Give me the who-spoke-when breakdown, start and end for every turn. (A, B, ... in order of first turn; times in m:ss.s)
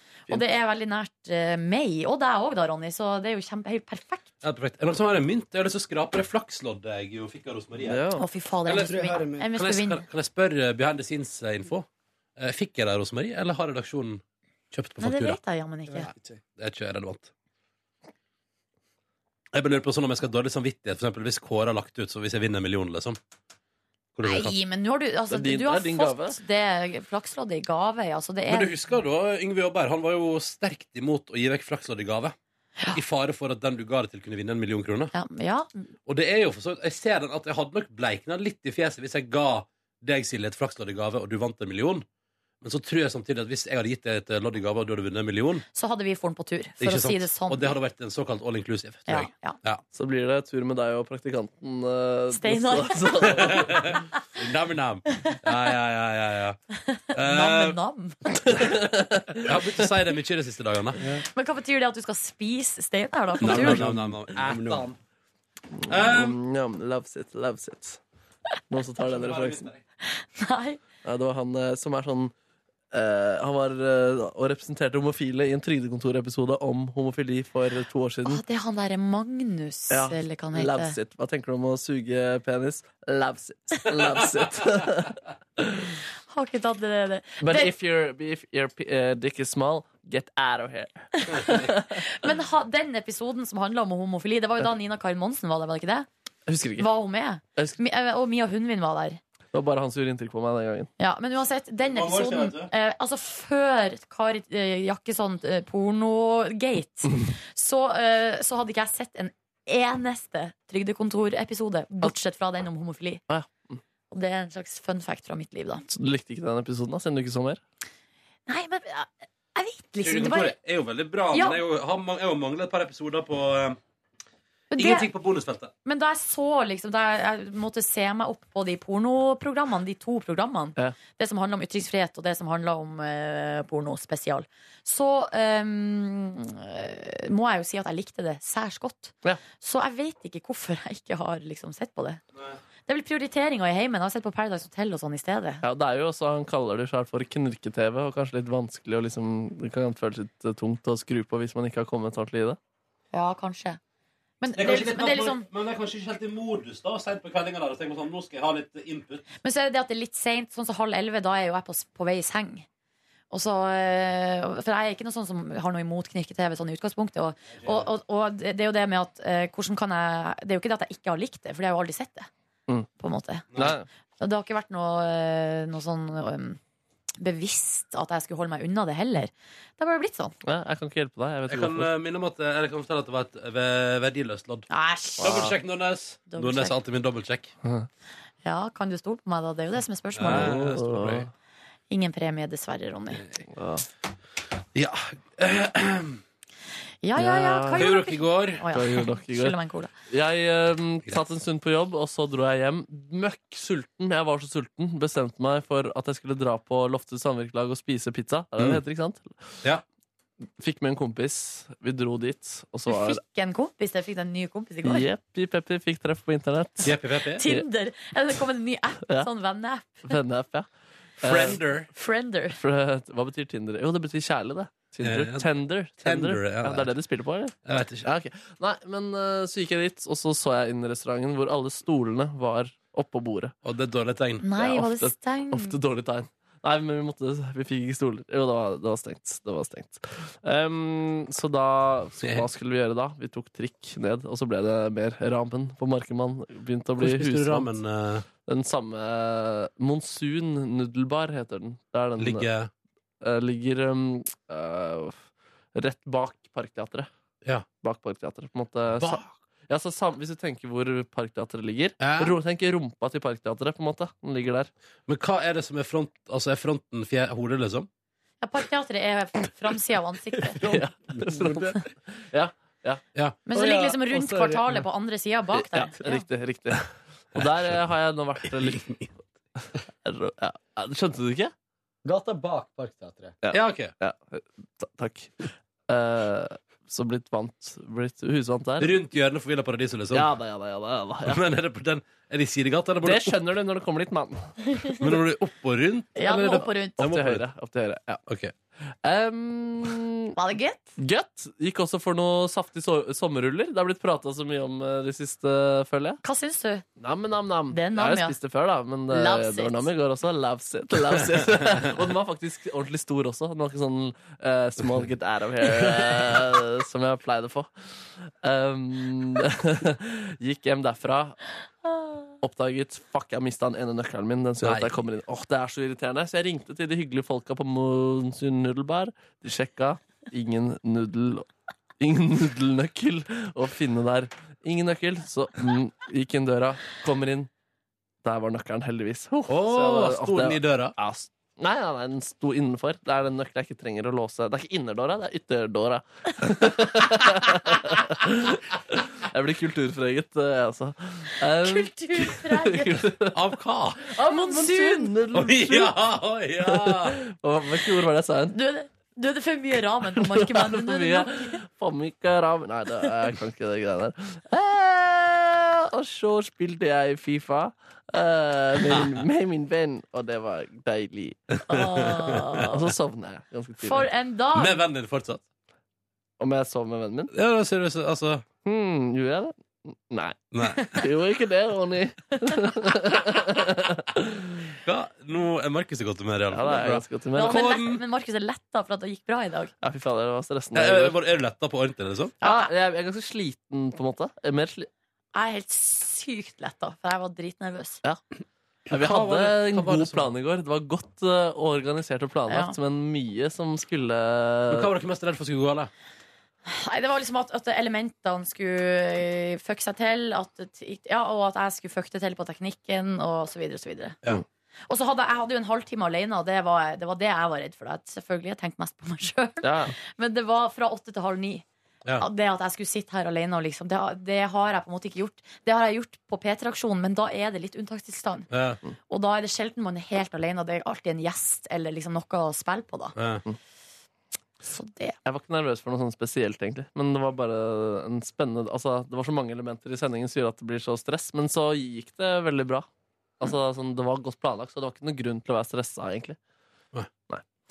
0:00.3-0:04.2 A
0:04.4-0:08.0 B
0:07.8-0:08.2 C
0:08.2-0:10.0 A
0:08.6-0:15.4 B
0:08.7-0:09.5 D
0:15.0-0:16.1 A
0:16.0-0:16.4 D
0:16.6-0:17.3 B
0:19.5-0:23.2 B
0:24.2-0:24.5 B
0:24.2-0:28.7 A
0:25.3-0:26.4 C
0:28.5-0:32.3 B
0:32.9-0:35.1 B
0:35.1-0:35.9 A
0:36.0-0:42.0 B
0:42.6-0:45.6 B
0:45.7-0:47.8 A
0:46.8-0:49.8 B
0:49.1-0:49.6 A
0:49.9-0:54.0 C
0:52.3-0:53.6 A
0:53.3-0:56.6 B
0:56.9-0:58.2 A
0:57.1-0:57.8 B
0:58.4-0:59.4 C
0:59.3-1:01.0 B
1:01.3-1:03.8 A
1:03.4-1:05.0 B
1:03.7-1:04.8 D
1:05.8-1:08.0 C
1:05.9-1:06.4 B
1:08.7-1:09.7 C
1:09.0-1:09.8 B
1:10.0-1:10.8 A
1:11.0-1:12.3 C
1:12.9-1:18.4 C
1:18.2-1:21.0 A
1:19.9-1:25.9 C
1:26.3-1:27.7 A
1:27.4-1:32.0 C
1:31.2-1:36.1 A
1:31.4-1:31.7 B
1:36.5-1:36.9 C
1:36.8-1:39.2 A
1:39.5-1:40.9 C
1:41.0-1:53.2 A
1:41.8-1:42.7 B
1:53.3-1:53.8 C
1:54.1-1:55.8 A
1:55.9-1:57.6 C
1:58.5-2:00.5 A
2:00.0-2:03.8 B
2:01.3-2:01.6 A
2:04.7-2:05.1 A
2:04.8-2:05.7 B
2:05.8-2:22.2 A
2:22.9-2:25.6 A
2:25.6-2:32.6 C
2:33.1-2:33.8 A
2:34.4-2:35.4 A
2:34.6-2:39.2 B
2:39.4-2:42.6 A
2:43.3-2:52.3 A
2:47.5-2:47.9 B
2:53.0-2:53.5 A
2:53.6-2:53.9 C
2:54.2-2:56.6 A
2:57.2-3:00.3 A
3:00.4-3:01.9 C
3:01.5-3:04.7 B
3:04.7-3:05.5 A
3:05.2-3:05.5 C
3:05.2-3:07.5 B
3:06.3-3:06.7 A
3:08.4-3:10.6 A
3:10.2-3:11.3 B
3:10.2-3:11.3 C
3:11.9-3:13.2 A
3:13.5-3:13.8 C
3:14.7-3:16.2 B
3:17.0-3:19.9 A
3:17.2-3:17.9 C
3:17.8-3:18.6 B
3:18.7-3:19.6 C
3:20.1-3:29.6 C
3:30.6-3:33.2 C
3:32.9-3:35.1 A
3:34.8-3:37.6 C
3:36.8-3:37.4 B
3:37.4-3:40.2 A
3:40.1-3:41.6 C
3:41.2-3:41.9 B
3:41.9-3:42.6 A
3:42.6-3:53.5 C
3:45.0-3:45.5 B
3:46.0-3:46.9 B
3:47.6-3:48.1 B
3:53.6-3:54.4 B
3:54.4-3:55.7 A
3:54.6-4:07.7 C
4:07.0-4:08.2 B
4:08.4-4:12.5 C
4:12.2-4:12.7 B
4:13.2-4:15.2 C
4:15.7-4:17.1 C
4:17.8-4:24.7 C
4:19.0-4:19.3 B
4:22.0-4:22.3 B
4:25.1-4:27.9 B
4:28.4-4:30.6 A
4:30.6-4:33.0 C
4:31.1-4:31.7 D
4:33.2-4:33.4 B
4:33.4-4:36.3 A
4:33.5-4:34.6 D
4:35.7-4:38.9 C
4:38.8-4:39.1 B
4:40.0-4:41.5 C
4:42.0-4:43.4 D
4:43.4-4:49.0 C
4:43.5-4:43.9 B
4:48.8-4:50.2 B
4:50.1-4:51.4 C
4:51.2-4:53.4 B
4:53.0-4:54.8 C
4:55.0-4:57.4 B
4:56.2-4:57.0 A
4:57.0-4:58.2 C
4:58.3-4:58.5 B
4:59.0-5:00.3 C
5:00.3-5:00.9 A
5:01.0-5:06.2 C
5:06.2-5:06.8 A
5:07.0-5:21.4 C
5:07.7-5:08.4 A
5:09.1-5:09.9 A
5:22.4-5:31.5 C
5:24.6-5:24.9 B
5:32.0-5:37.5 C
5:38.2-5:53.3 C
5:39.5-5:40.9 B
5:51.6-5:53.0 A
5:53.3-5:54.0 B
5:54.1-5:55.9 C
5:54.2-5:55.1 A
5:55.3-5:57.2 B
5:56.6-5:58.6 C
5:58.5-6:01.6 A
6:00.2-6:11.6 C
6:08.9-6:09.2 B
6:11.7-6:12.4 B
6:11.7-6:12.6 A
6:12.6-6:14.0 C
6:13.8-6:14.8 A
6:14.5-6:15.4 B
6:16.4-6:17.3 C
6:17.3-6:18.4 B
6:18.6-6:24.4 C
6:20.5-6:21.0 B
6:24.8-6:28.0 B
6:26.5-6:27.6 C
6:27.3-6:29.7 A
6:29.8-6:31.2 C
6:30.7-6:32.3 B
6:32.4-6:32.7 A
6:32.4-6:34.9 C
6:35.3-6:38.0 A
6:38.9-6:44.9 C
6:39.0-6:40.2 B
6:42.5-6:42.7 A
6:44.7-6:45.9 B
6:46.6-6:54.2 A
6:54.9-7:01.6 A
6:59.6-6:59.9 C
7:02.2-7:08.5 A
7:08.5-7:08.8 B
7:09.1-7:13.2 A
7:13.2-7:13.4 B
7:14.6-7:15.2 A
7:15.2-7:22.8 C
7:23.4-7:26.4 C